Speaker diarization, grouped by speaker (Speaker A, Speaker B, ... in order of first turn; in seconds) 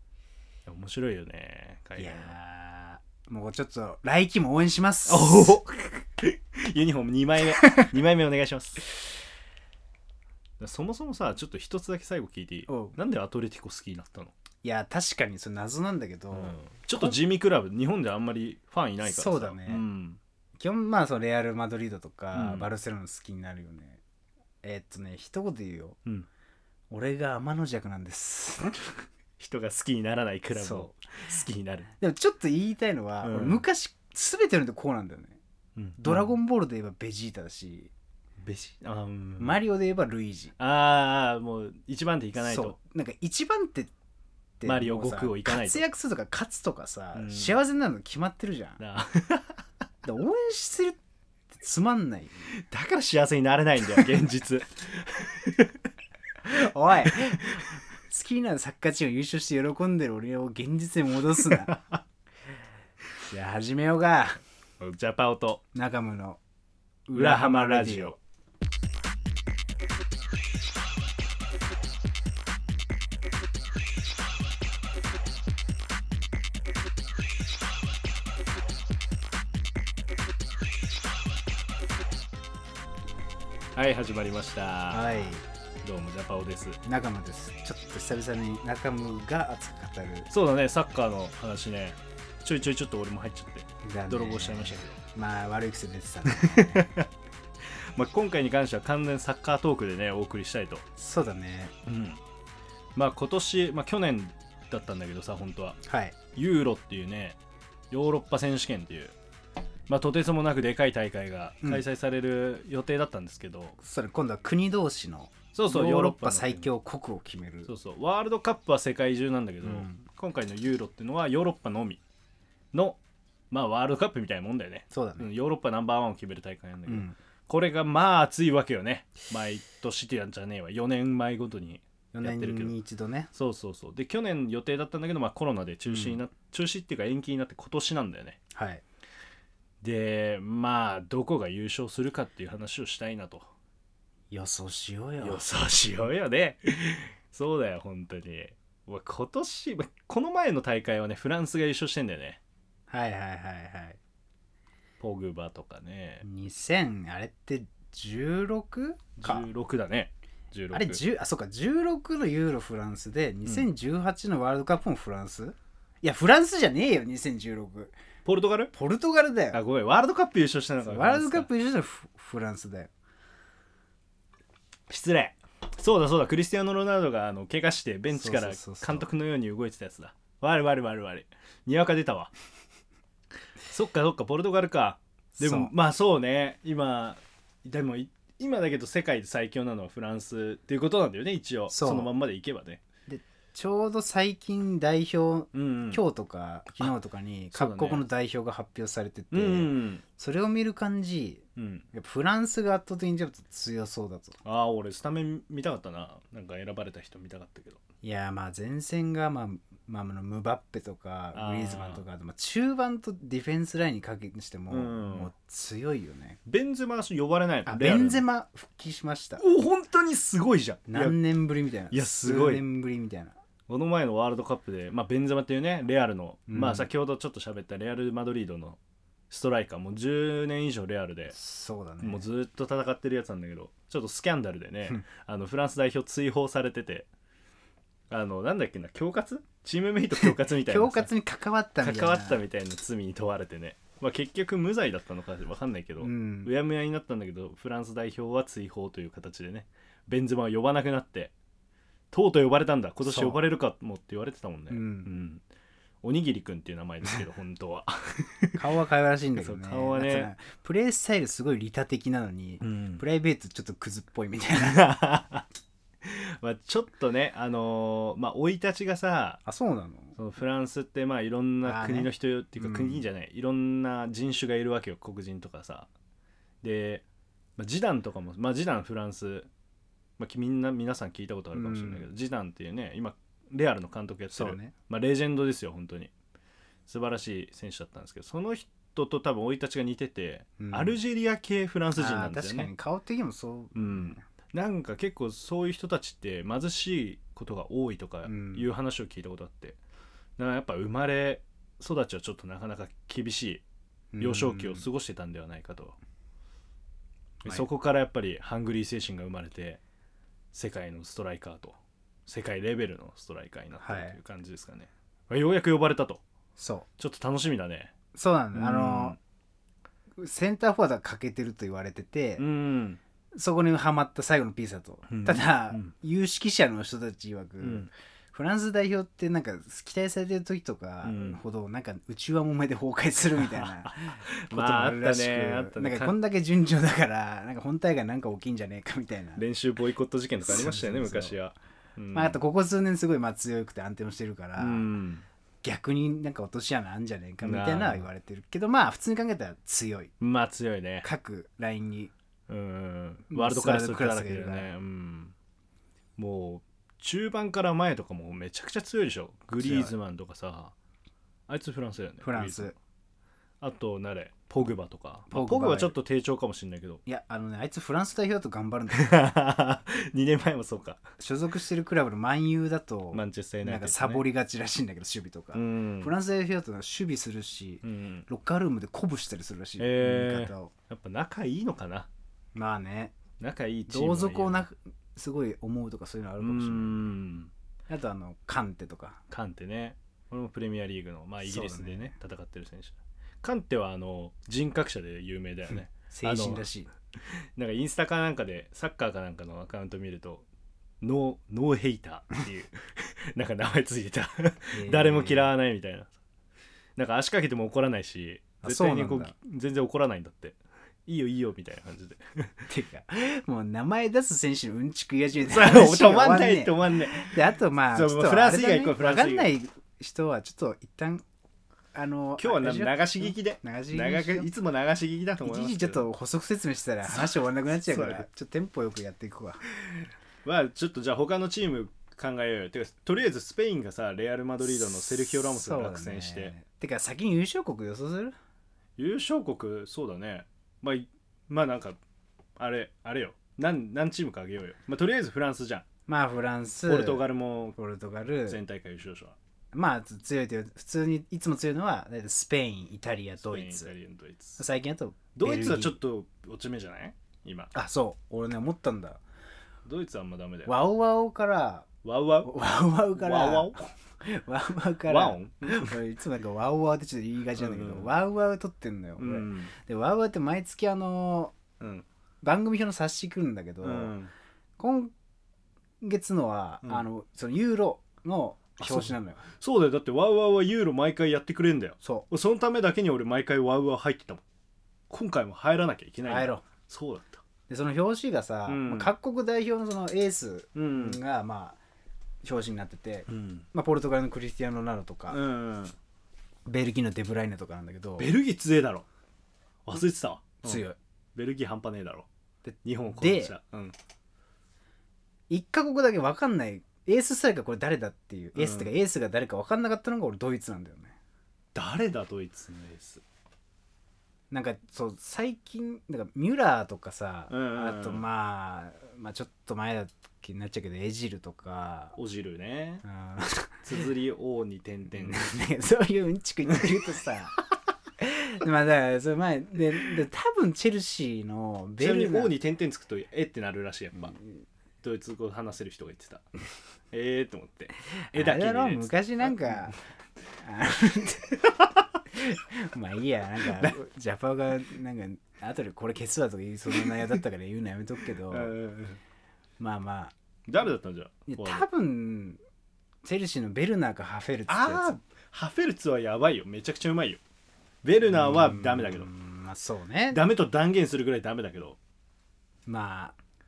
Speaker A: 0.7-2.4, 5.1-8.8, 10.6-14.3, 16.3-20.2, 22.3-22.7, 29.4-31.9, 33.2-33.6, 35.8-36.3, 38.4-39.6, 40.6-42.8, 44.6-45.8, 47.1-47.6, 48.8-49.6, 52.6-55.8, 57.0-57.7, 61.6-62.0, 64.8-65.6, 67.2-68.2, 83.8-85.3, 85.8-86.8, 90.3-95.0, 96.3-97.1, 97.9-100.8, 101.9-102.2, 103.0-105.8, 106.3-107.4, 107.9-109.1, 109.9-113.8, 115.5-116.7, 117.7-122.0, 122.7-123.0, 123.5-132.8, 133.3-138.4, 139.8-143.5, 145.2-152.4, 155.0-156.2, 159.2-161.0, 168.2-168.7, 169.5-171.5, 174.9-182.3, 183.7-192.8, 195.5-196.0, 197.5-198.0, 199.3-200.0, 201.6-201.8, 204.4-207.8, 211.3-212.0, 214.7-215.3, 216.5-218.2, 219.4-221.2, 221.9-222.6, 223.7-228.8, 229.3-231.4, 232.0-237.1, 238.1-241.1, 241.8-251.3, 252.1-255.4, 256.0-258.6, 259.4-260.3, 262.6-263.0, 264.6-265.5, 266.0-269.4, 270.2-275.9, 276.6-277.1, 277.6-279.5, 280.2-286.1, 286.9-292.7, 293.8-299.8, 300.4-303.6, 304.2-306.0, 307.4-309.8, 310.5-316.2, 317.0-317.9, 318.5-319.2, 322.4-323.0, 325.1-325.9, 327.6-327.9, 331.0-331.4, 333.4-336.1, 339.4-342.4, 344.6-345.2, 347.4-348.1, 350.2-351.1, 352.5-355.3, 356.2-360.7, 361.5-362.7, 363.6-367.0, 368.9-371.0, 373.1-374.2, 375.5-376.1, 377.8-378.3, 379.8-382.1, 383.4-384.7, 386.4-387.5, 389.3-396.7, 397.2-400.4, 401.0-406.1, 407.0-412.6, 415.4-419.5, 422.4-426.1, 427.1-428.3, 430.4-436.5, 439.0-442.0, 442.6-445.9, 446.9-447.8, 448.5-449.4, 453.4-454.6, 455.4-457.7, 459.9-460.8, 462.0-462.5, 463.1-463.9, 465.1-466.0, 467.6-468.1, 469.2-469.7, 471.8-472.1, 473.8-474.3, 478.8-484.4, 485.1-487.4, 488.7-489.1, 490.8-491.2, 493.3-493.6, 495.3-495.9, 498.2-499.1, 499.9-502.3, 502.8-503.9, 508.6-508.9, 511.8-513.2, 517.5-518.2, 522.2-523.0, 523.8-525.6, 532.0-534.4, 535.0-536.5, 537.1-539.8, 548.5-549.2, 550.7-551.9, 554.7-557.4, 558.0-559.3, 560.3-562.0
Speaker B: 2.0-5.6, 12.7-13.0, 14.6-17.2, 19.0-19.8, 20.6-24.0, 24.6-26.0, 26.9-28.8, 30.6-30.9, 32.0-35.4, 36.0-37.9, 39.4-40.6, 42.4-43.9, 44.6-48.8, 50.0-51.0, 51.5-52.5, 56.4-61.7, 63.2-64.4, 65.7-66.4, 67.1-68.2, 84.9-85.4, 86.8-90.3, 93.8-96.9, 101.0-101.7, 105.8-106.2, 113.8-117.7, 119.6-120.0, 124.9-125.3, 126.9-127.2, 132.1-133.3, 135.9-136.2, 138.5-138.8, 144.3-145.5, 152.9-154.0, 156.2-159.5, 160.7-167.9, 168.7-169.6, 170.8-172.9, 178.1-179.1, 185.4-185.7, 191.7-192.1, 193.1-204.4, 208.0-216.4, 217.7-219.4, 220.9-223.4, 226.5-226.9, 231.3-232.2, 240.6-242.4, 246.0-246.5, 253.0-253.4, 254.7-255.1, 258.6-264.8, 269.4-270.2, 271.6-273.0, 281.5-282.1, 284.3-284.7, 290.6-291.0, 292.0-294.2, 298.3-298.7, 304.1-304.9, 313.8-314.2, 316.6-316.9, 318.1-319.2, 320.2-322.4, 323.3-339.4, 340.4-341.4, 342.1-344.9, 345.6-350.1, 351.0-352.1, 353.3-354.7, 359.6-359.9, 362.2-362.7, 365.3-365.9, 367.1-369.1, 371.2-380.7, 382.5-383.1, 383.9-387.1, 387.9-389.2, 391.4-392.1, 396.0-396.9, 404.7-405.5, 408.6-409.3, 412.7-421.2, 421.9-424.5, 425.4-429.6, 434.8-438.4, 446.1-448.6, 449.7-453.9, 454.6-456.0, 457.7-459.2, 460.7-461.9, 462.4-471.6, 472.4-474.1, 474.8-475.1, 476.0-479.4, 482.0-482.3, 486.3-486.6, 487.7-491.8, 492.4-495.4, 496.7-498.3, 500.6-501.0, 502.7-503.6, 505.5-511.2, 514.5-522.2, 523.0-523.8, 525.2-527.6, 528.2-532.5, 538.3-540.0, 540.6-541.7, 542.3-548.7, 549.8-550.3, 551.5-552.6, 553.2-555.2, 558.3-560.4, 562.9-563.4